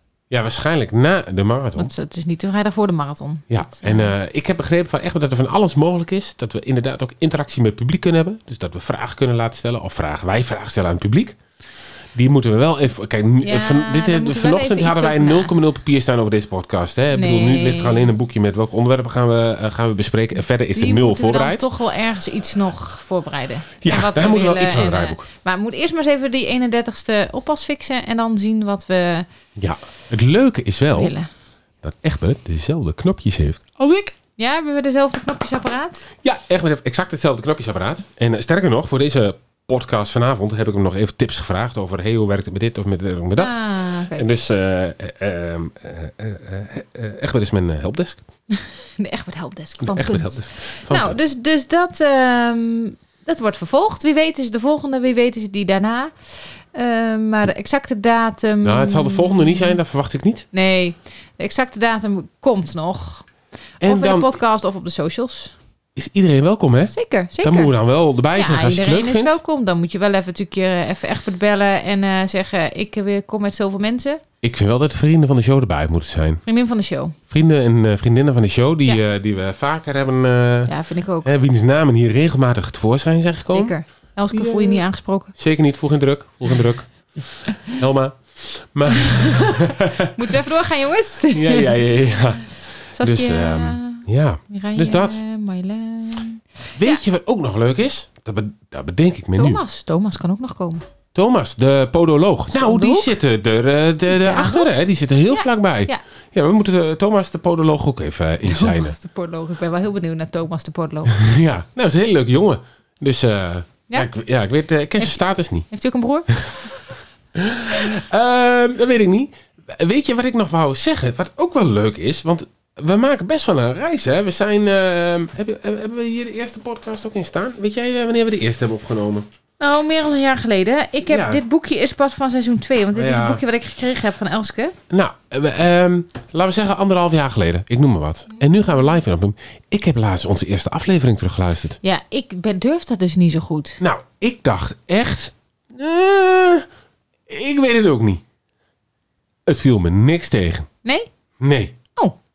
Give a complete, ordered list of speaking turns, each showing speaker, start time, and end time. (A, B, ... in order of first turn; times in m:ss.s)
0:00.3-0:01.9 A
0:01.8-0:04.1 B
0:03.5-0:11.4 A
0:12.1-0:21.7 A
0:13.4-0:15.5 B
0:17.1-0:18.1 B
0:20.7-0:29.3 B
0:23.8-0:25.2 A
0:29.6-0:31.1 A
0:30.9-0:31.3 B
0:31.8-0:34.2 A
0:34.4-0:36.1 B
0:36.2-0:43.6 A
0:43.4-0:44.3 B
0:44.1-0:48.2 A
0:48.5-0:59.8 B
0:49.8-0:51.2 A
0:58.6-1:00.5 A
1:00.5-1:03.3 B
1:03.8-1:04.4 A
1:03.8-1:05.6 B
1:06.0-1:09.4 A
1:06.9-1:07.7 B
1:08.3-1:14.2 B
1:14.4-1:16.4 A
1:16.5-1:17.2 B
1:17.3-1:20.7 A
1:20.7-1:21.3 B
1:21.2-1:23.7 A
1:23.5-1:25.3 B
1:24.3-1:24.8 A
1:25.4-1:30.1 A
1:29.1-1:29.5 B
1:30.1-1:31.8 B
1:31.3-1:35.2 A
1:33.0-1:37.0 B
1:36.8-1:39.6 A
1:39.4-1:40.8 B
1:41.2-1:49.0 A
1:42.5-1:43.1 B
1:44.1-1:44.7 B
1:45.3-1:46.0 B
1:48.4-1:51.2 B
1:51.1-1:55.7 A
1:55.7-1:56.3 B
1:57.4-2:09.3 A
2:09.6-2:14.8 B
2:11.1-2:11.4 A
2:13.0-2:13.4 A
2:14.9-2:21.8 A
2:21.8-2:23.8 B
2:23.8-2:26.7 A
2:27.3-2:28.2 A
2:29.5-2:30.7 A
2:31.4-2:31.8 A